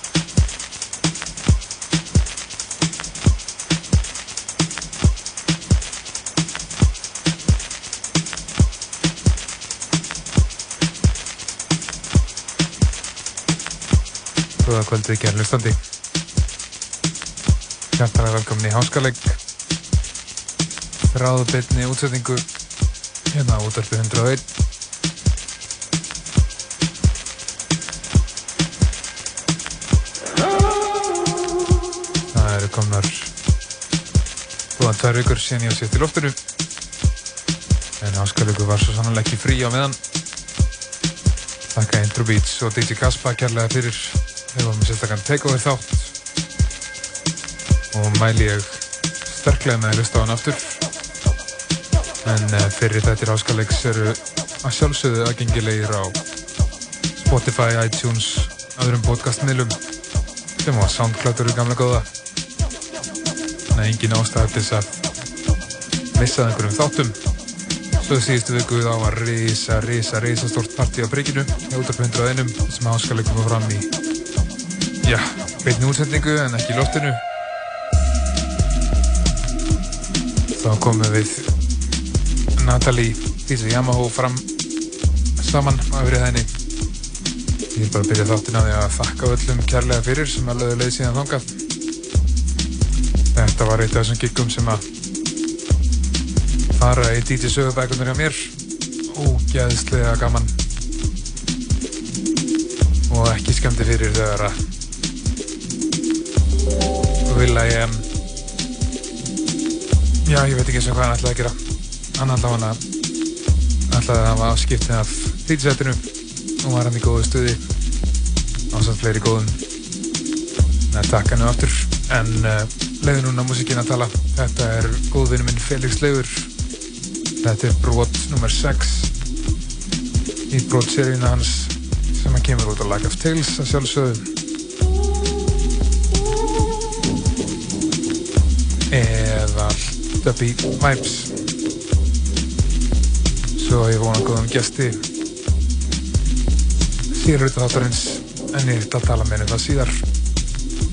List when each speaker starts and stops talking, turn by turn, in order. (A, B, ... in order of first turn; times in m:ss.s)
0:14.6-0:15.8 A
0:18.0-0:19.4 A
0:21.1-0:22.4 A
0:23.3-0:24.4 A
0:32.3-0:33.3 A
0:34.8-0:36.4 A
0:38.0-0:40.0 A
0:41.7-0:46.1 A
0:47.9-0:50.8 A
0:52.2-0:56.2 A
0:57.2-0:59.8 A
1:00.6-1:02.1 A
1:03.7-1:05.0 A
1:06.1-1:07.2 A
1:08.0-1:13.9 A
1:15.0-1:17.2 A
1:20.6-1:21.5 A
1:22.6-1:24.4 A
1:25.4-1:26.5 A
1:27.7-1:31.6 A
1:33.3-1:34.8 A
1:36.7-1:38.5 A
1:39.1-1:40.5 A
1:43.1-1:44.6 A
1:47.2-1:48.0 A
1:50.2-1:51.6 A
1:52.2-1:52.8 A
1:53.9-1:56.0 A
1:56.6-1:57.6 A
1:58.7-1:59.6 A
2:00.9-2:06.5 A
2:07.4-2:09.1 A
2:10.5-2:14.3 A
2:18.9-2:21.3 A
2:23.6-2:25.0 A
2:27.1-2:30.0 A